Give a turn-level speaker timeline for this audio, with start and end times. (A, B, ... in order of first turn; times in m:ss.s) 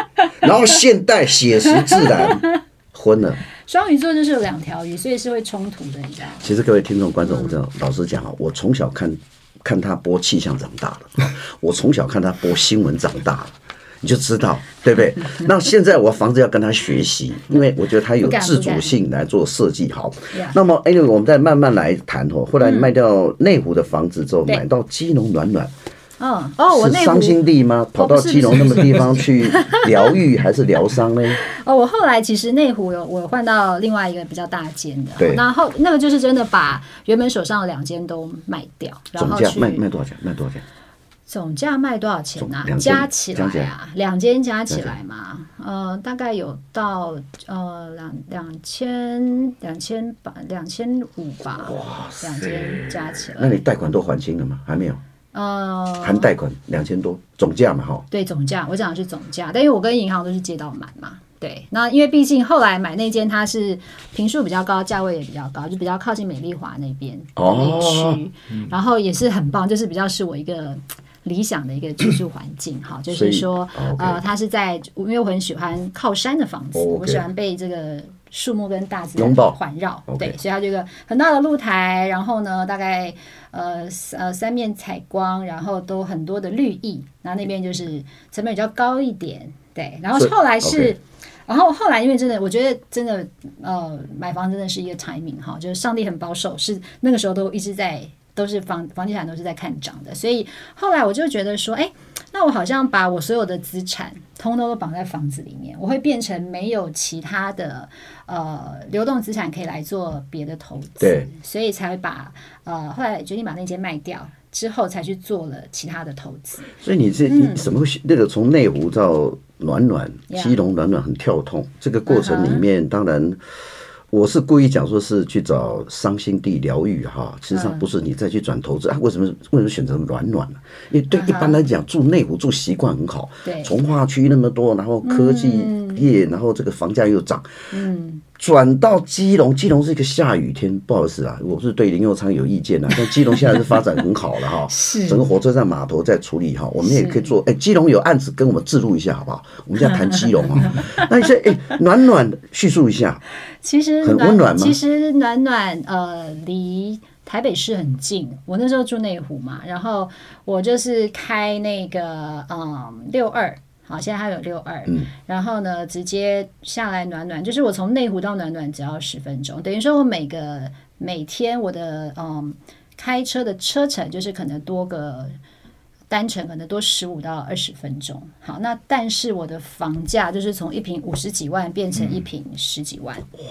0:00.4-0:03.4 A
0:01.8-0:02.6 B
0:03.6-0:06.4 B
0:06.4-0:25.7 A
0:07.2-0:07.6 B
0:18.2-0:19.0 B
0:22.6-0:22.9 B
0:26.2-0:27.4 B
0:26.7-0:31.4 A
0:28.0-0:29.9 B
0:31.4-0:39.8 B
0:35.2-0:35.4 A
0:39.2-0:40.6 A
0:41.3-0:53.6 B
0:42.4-0:43.7 A
0:44.7-0:44.9 A
0:51.6-0:55.0 A
0:55.3-0:56.3 B
0:56.0-0:58.0 A
0:58.1-1:56.7 B
1:07.4-1:08.2 A
1:13.1-1:14.2 A
1:16.7-1:17.2 A
1:19.2-1:19.6 A
1:20.1-1:20.4 A
1:30.2-1:30.9 A
1:51.0-1:51.3 A
1:56.8-2:03.4 A
1:57.3-1:57.7 B
2:00.3-2:00.6 B
2:02.1-2:02.6 B
2:04.1-2:17.5 A
2:07.5-2:07.8 B
2:11.1-2:11.6 B
2:13.4-2:13.7 B
2:15.0-2:16.0 B
2:17.7-2:18.2 B
2:18.4-2:33.2 A
2:23.1-2:23.7 B
2:24.7-2:25.2 B
2:26.8-2:27.3 B
2:30.7-2:31.0 B
2:33.6-2:55.4 B
2:34.0-2:34.8 A
2:56.1-3:03.3 B